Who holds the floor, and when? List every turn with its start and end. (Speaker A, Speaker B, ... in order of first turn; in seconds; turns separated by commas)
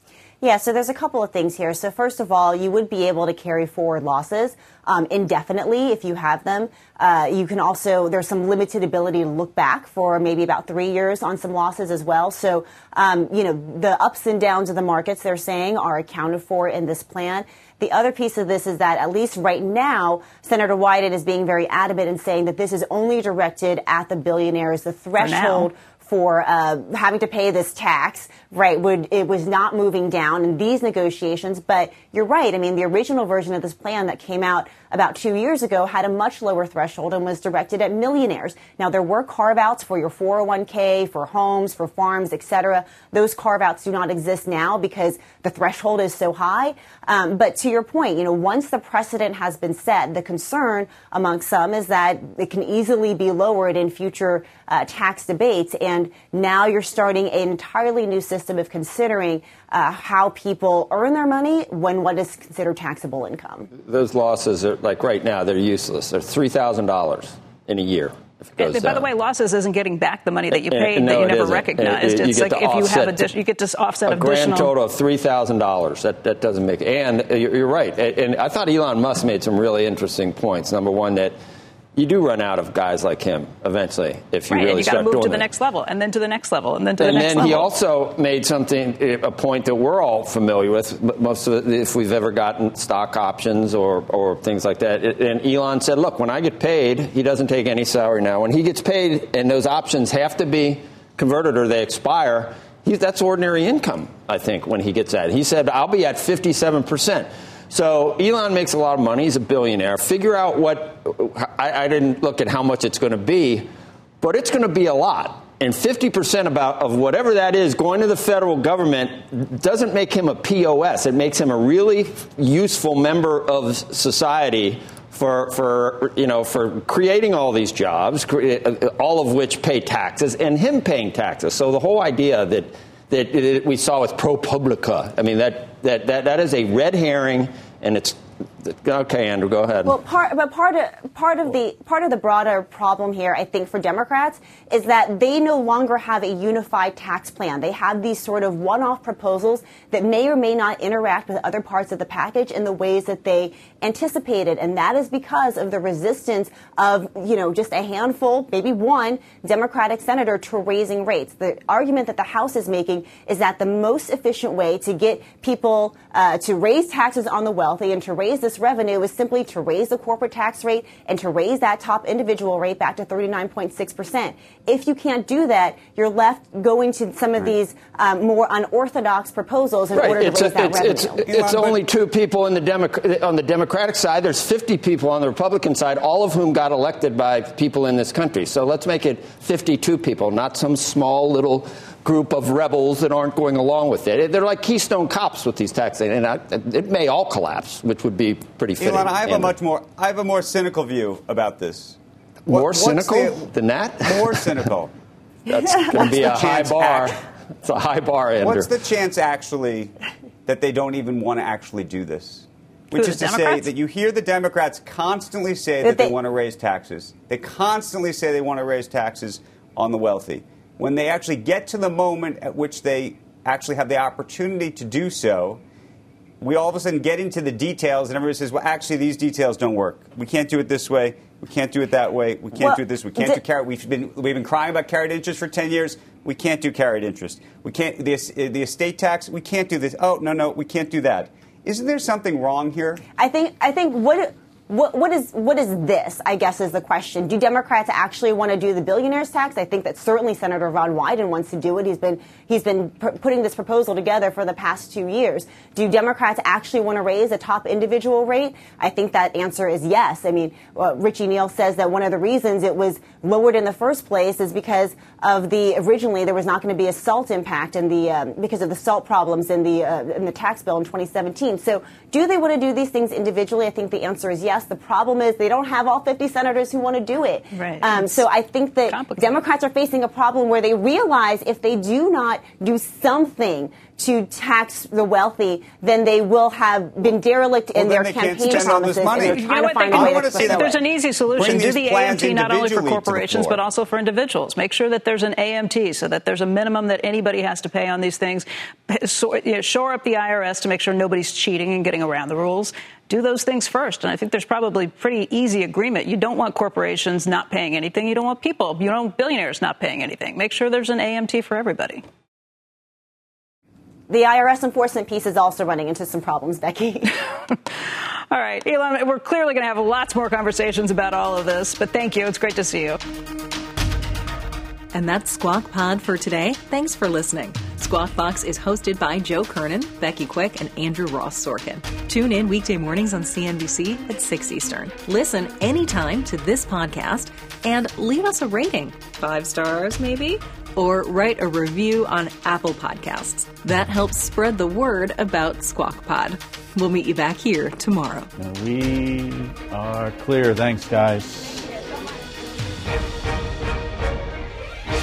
Speaker A: 0.4-63.7, Speaker B: 25.2-25.7, Speaker C: 63.8-69.1, Speaker B: 68.6-74.7, Speaker C: 70.5-73.2, Speaker C: 74.1-81.3, Speaker C: 81.9-85.5, Speaker B: 84.5-87.7, Speaker C: 87.0-113.7, Speaker C: 114.2-140.0, Speaker A: 139.8-181.2, Speaker C: 179.9-199.6, Speaker D: 181.2-181.8, Speaker D: 198.8-204.9, Speaker C: 202.5-204.6, Speaker C: 205.5-208.7, Speaker D: 205.9-207.1, Speaker D: 208.4-209.9, Speaker D: 210.5-225.6, Speaker B: 212.9-213.7, Speaker A: 215.8-216.1, Speaker D: 226.4-243.0, Speaker A: 232.6-233.4, Speaker A: 243.2-290.7, Speaker B: 277.5-278.2, Speaker B: 278.9-279.4, Speaker D: 287.8-290.8, Speaker B: 289.2-312.0, Speaker D: 291.3-293.6, Speaker A: 314.1-317.2, Speaker B: 318.3-323.0, Speaker E: 324.9-348.3, Speaker F: 348.4-351.7